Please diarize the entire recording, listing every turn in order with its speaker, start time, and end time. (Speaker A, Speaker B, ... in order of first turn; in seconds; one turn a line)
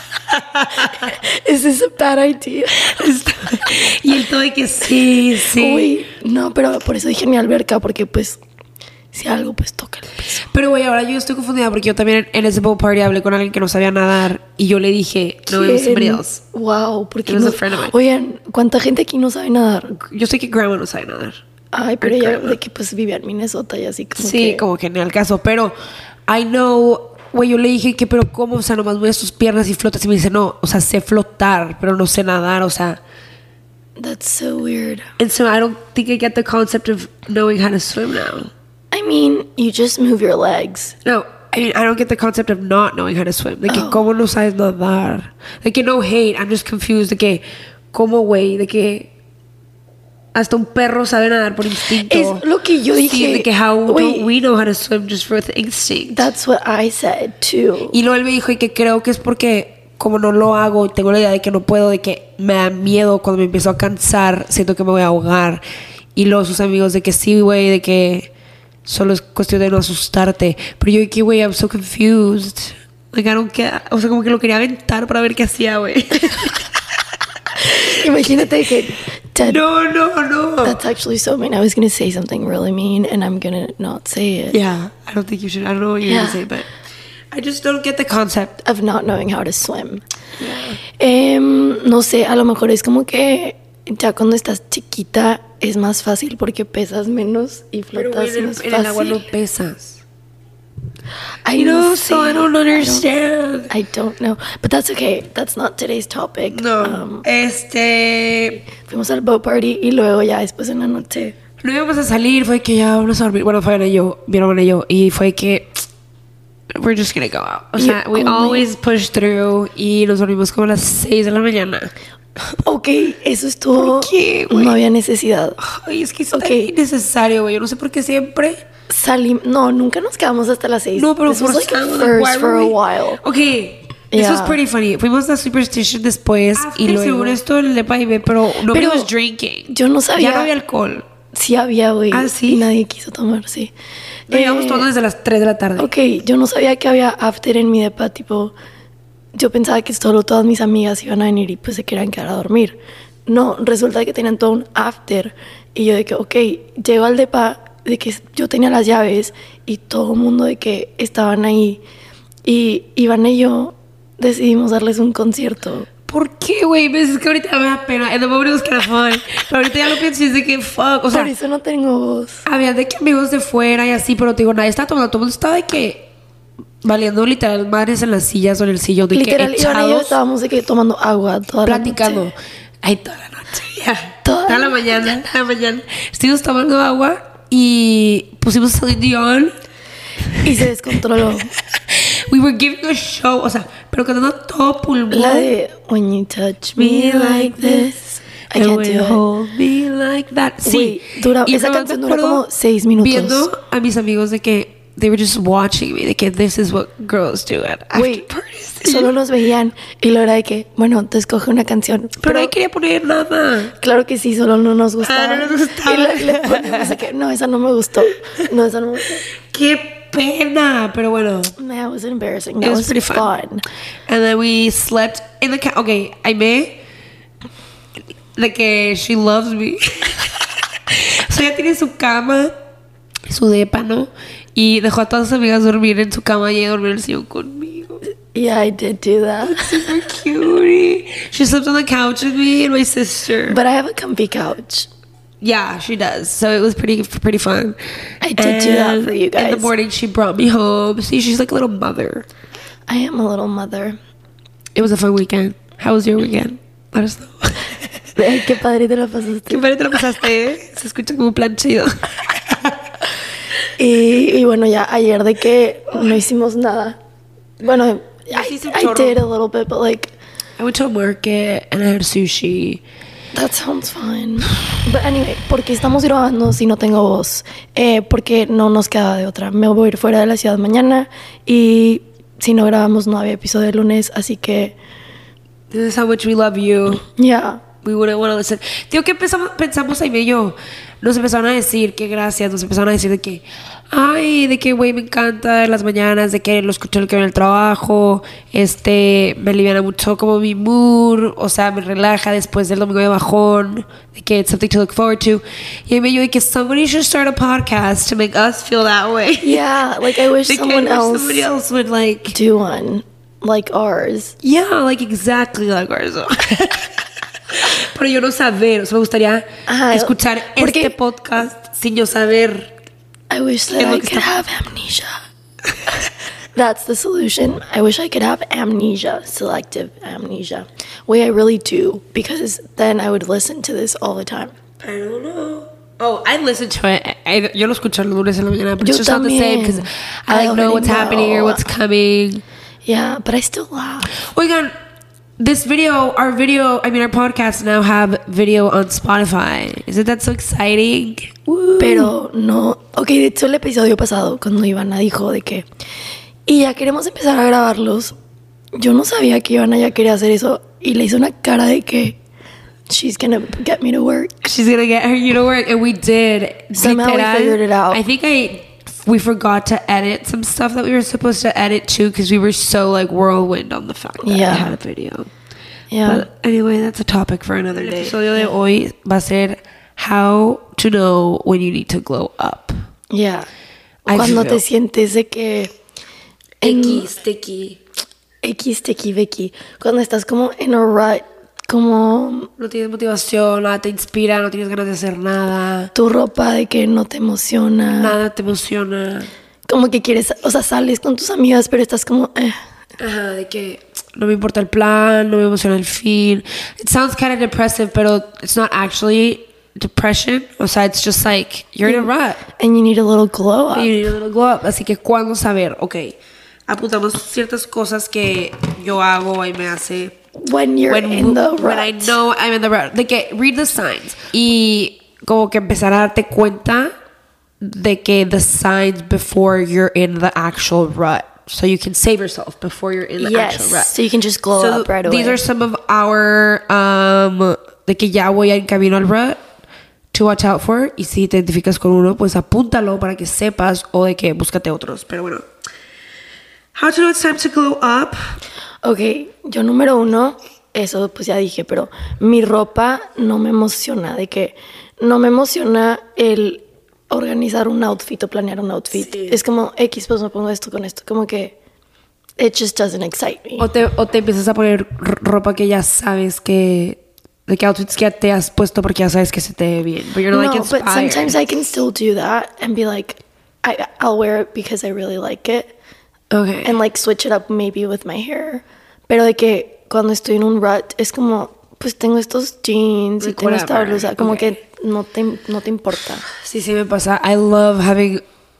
Speaker A: 0.2-1.1
Speaker B: 0.8-3.0
Speaker A: 2.7-6.0
Speaker B: 5.3-8.4
Speaker B: 9.1-10.4
Speaker A: 10.3-16.4
Speaker B: 15.5-20.0
Speaker A: 17.2-17.9
Speaker A: 19.9-21.4
Speaker B: 21.7-24.6
Speaker A: 22.0-22.6
Speaker A: 24.1-25.7
Speaker A: 26.3-33.0
Speaker B: 34.0-35.1
Speaker A: 35.2-38.5
Speaker B: 38.9-41.0
Speaker A: 41.0-49.1
Speaker B: 43.7-44.0
Speaker A: 50.3-52.4
Speaker B: 51.8-54.3
Speaker A: 52.9-56.3
Speaker B: 56.1-58.0
Speaker A: 57.9-65.6
Speaker A: 66.2-68.3
Speaker A: 68.8-78.5
Speaker B: 77.6-79.6
Speaker A: 79.4-80.8
Speaker B: 80.6-84.6
Speaker A: 84.5-86.7
Speaker B: 86.0-86.4
Speaker A: 87.3-88.6
Speaker B: 88.6-90.0
Speaker A: 90.4-90.8
Speaker B: 91.0-99.2
Speaker A: 97.9-100.0
Speaker B: 101.4-103.0
Speaker A: 101.5-103.7
Speaker B: 103.7-107.2
Speaker A: 106.5-108.7
Speaker B: 108.8-111.3
Speaker A: 111.6-115.9
Speaker A: 116.7-122.6
Speaker B: 117.8-118.7
Speaker B: 122.6-125.6
Speaker A: 123.8-124.8
Speaker A: 125.6-128.6
Speaker B: 126.3-126.7
Speaker B: 128.9-133.2
Speaker A: 130.9-141.1
Speaker B: 134.1-134.6
Speaker B: 136.6-137.4
Speaker B: 138.7-139.1
Speaker B: 139.7-140.5
Speaker B: 141.3-143.7
Speaker A: 142.1-142.6
Speaker B: 144.3-144.9
Speaker A: 144.3-145.9
Speaker B: 145.8-148.5
Speaker B: 149.3-161.8
Speaker B: 162.4-165.9
Speaker A: 166.1-171.3
Speaker B: 171.1-172.4
Speaker A: 172.4-176.1
Speaker A: 176.8-180.2
Speaker B: 179.1-182.3
Speaker A: 181.6-189.5
Speaker B: 184.2-185.2
Speaker A: 190.2-190.7
Speaker B: 190.4-191.5
Speaker A: 191.5-195.5
Speaker B: 195.1-199.2
Speaker A: 196.8-197.9
Speaker A: 198.5-202.4
Speaker B: 200.6-203.4
Speaker A: 203.0-209.1
Speaker B: 207.9-208.3
Speaker B: 208.8-212.5
Speaker A: 212.2-213.7
Speaker B: 213.8-219.2
Speaker A: 215.0-217.0
Speaker A: 219.3-221.5
Speaker B: 221.6-223.6
Speaker A: 222.6-223.3
Speaker A: 224.1-226.7
Speaker A: 228.3-232.5
Speaker A: 233.3-238.0
Speaker B: 238.3-239.9
Speaker A: 239.4-243.6
Speaker B: 243.5-244.9
Speaker A: 245.4-247.8
Speaker B: 248.2-249.7
Speaker A: 248.3-252.3
Speaker B: 252.9-254.0
Speaker A: 254.7-257.9
Speaker B: 258.1-259.7
Speaker A: 259.5-262.9
Speaker B: 263.7-267.0
Speaker B: 267.6-270.1
Speaker A: 268.3-269.2
Speaker A: 270.6-272.8
Speaker B: 273.3-284.8
Speaker A: 285.7-287.0
Speaker B: 287.0-287.6
Speaker A: 287.8-312.4
Speaker B: 309.4-311.5
Speaker B: 312.3-314.4
Speaker A: 314.4-322.7
Speaker B: 319.7-320.9
Speaker B: 323.3-325.1
Speaker A: 323.7-324.3
Speaker B: 326.5-334.5
Speaker A: 334.8-342.4
Speaker B: 338.8-341.6
Speaker B: 342.8-344.2
Speaker A: 344.1-344.7
Speaker A: 345.4-352.1
Speaker B: 351.8-355.6
Speaker B: 356.5-358.1
Speaker B: 358.7-362.2
Speaker B: 362.9-364.4
Speaker A: 364.4-375.3
Speaker B: 366.7-368.0
Speaker B: 374.2-374.7
Speaker B: 375.9-376.2
Speaker A: 376.0-382.7
Speaker B: 377.8-378.5
Speaker B: 383.1-383.5
Speaker B: 384.1-385.7
Speaker A: 384.1-384.6
Speaker B: 386.6-387.1
Speaker A: 386.6-387.8
Speaker B: 388.4-392.5
Speaker A: 392.6-395.9
Speaker B: 395.9-398.2
Speaker A: 397.9-399.3
Speaker B: 399.7-402.6
Speaker A: 403.0-412.4
Speaker B: 411.8-414.0
Speaker A: 413.7-416.1
Speaker A: 416.7-420.1
Speaker B: 420.4-422.1
Speaker A: 420.9-426.9
Speaker A: 427.6-433.9
Speaker B: 433.2-435.4
Speaker A: 434.5-439.4
Speaker A: 440.1-445.4
Speaker A: 446.7-448.2
Speaker B: 448.8-461.6
Speaker A: 458.9-459.4
Speaker B: 462.4-463.7
Speaker A: 463.6-471.4
Speaker B: 470.3-475.7
Speaker A: 476.3-476.8
Speaker B: 476.6-486.3
Speaker A: 483.2-484.5
Speaker A: 486.3-488.2